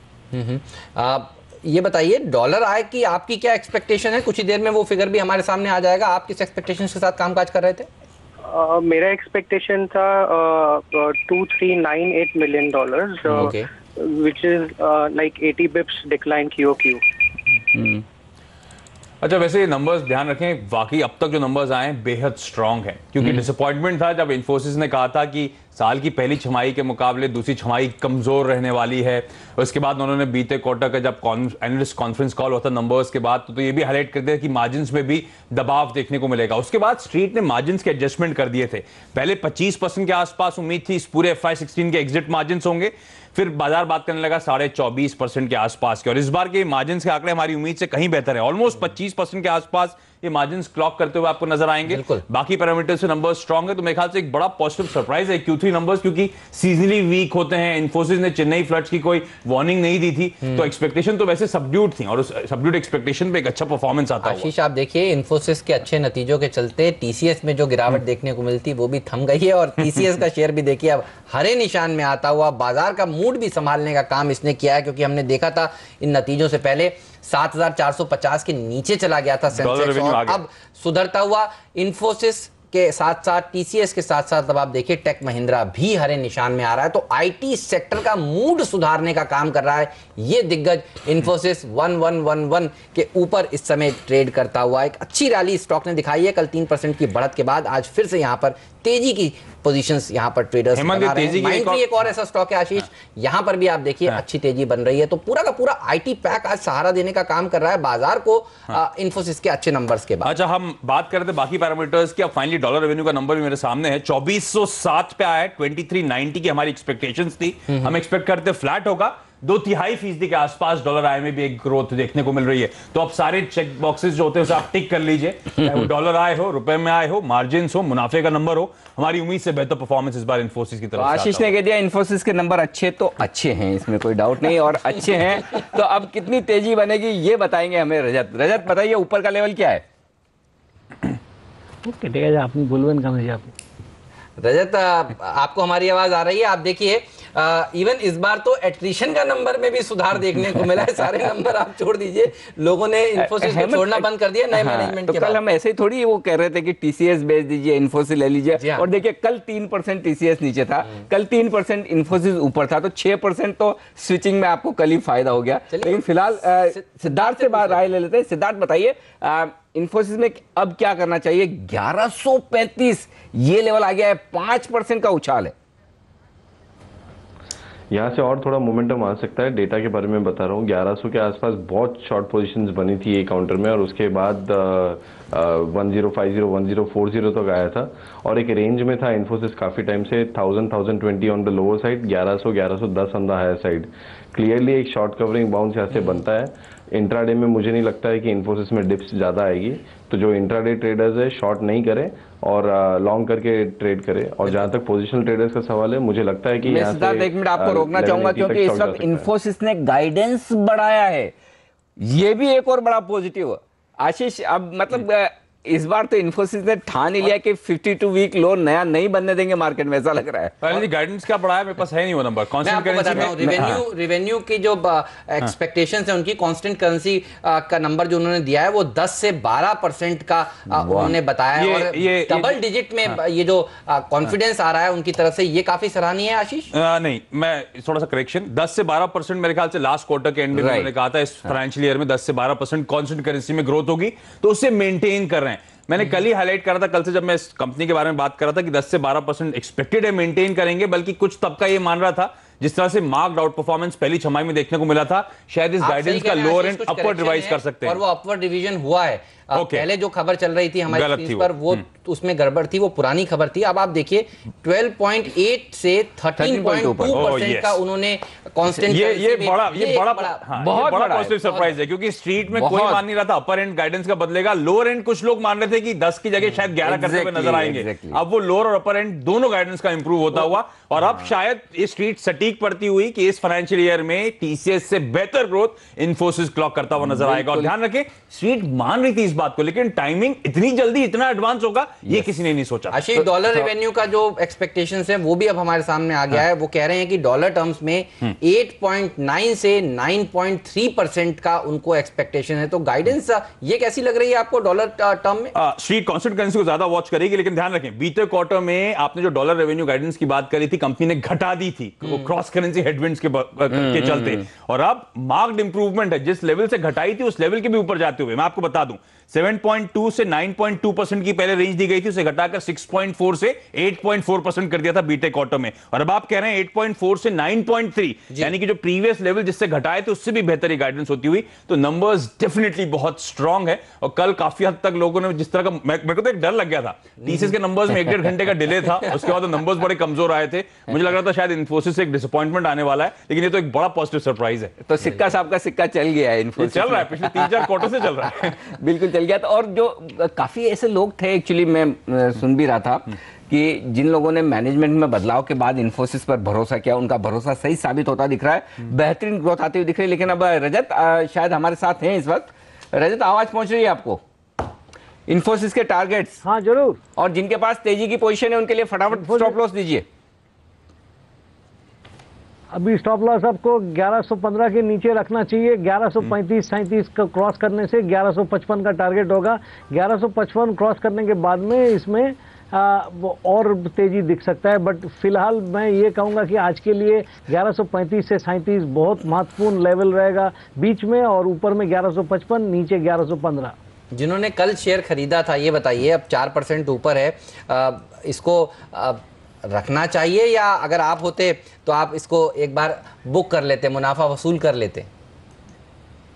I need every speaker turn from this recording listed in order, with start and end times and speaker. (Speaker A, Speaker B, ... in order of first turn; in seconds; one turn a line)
Speaker A: 0.3-7.9
Speaker B: 8.5-17.0
Speaker A: 13.3-13.7
Speaker C: 17.7-18.0
Speaker D: 19.2-64.5
Speaker C: 23.2-23.4
Speaker A: 51.9-52.2
Speaker A: 60.4-60.7
Speaker A: 64.2-110.3
Speaker D: 79.5-80.4
Speaker D: 100.7-101.9
Speaker D: 110.2-131.5
Speaker C: 130.9-139.8
Speaker E: 141.8-143.5
Speaker A: 144.4-155.4
Speaker C: 153.1-175.5
Speaker A: 158.6-158.8
Speaker A: 165.7-167.8
Speaker F: 177.9-209.3
Speaker C: 206.6-211.3
Speaker C: 212.0-220.8
Speaker D: 220.6-223.8
Speaker A: 222.6-236.7
Speaker C: 223.1-223.8
Speaker C: 230.7-231.2
Speaker D: 231.5-232.6
Speaker D: 236.7-258.0
Speaker C: 240.5-240.9
Speaker A: 255.8-270.4
Speaker D: 259.5-259.9
Speaker D: 260.9-261.8
Speaker C: 266.4-267.3
Speaker D: 267.1-267.8
Speaker D: 268.8-293.0
Speaker C: 270.5-271.7
Speaker C: 272.5-273.0
Speaker C: 276.4-278.2
Speaker C: 287.0-287.7
Speaker C: 292.0-292.3
Speaker A: 292.9-305.5
Speaker C: 293.1-293.7
Speaker D: 305.5-344.7
Speaker C: 313.7-314.4
Speaker A: 337.2-337.5
Speaker C: 344.8-364.2
Speaker D: 346.6-348.6
Speaker C: 365.3-366.4
Speaker E: 366.4-367.0
Speaker C: 367.1-370.1
Speaker E: 369.1-369.5
Speaker E: 372.7-393.8
Speaker A: 394.1-405.1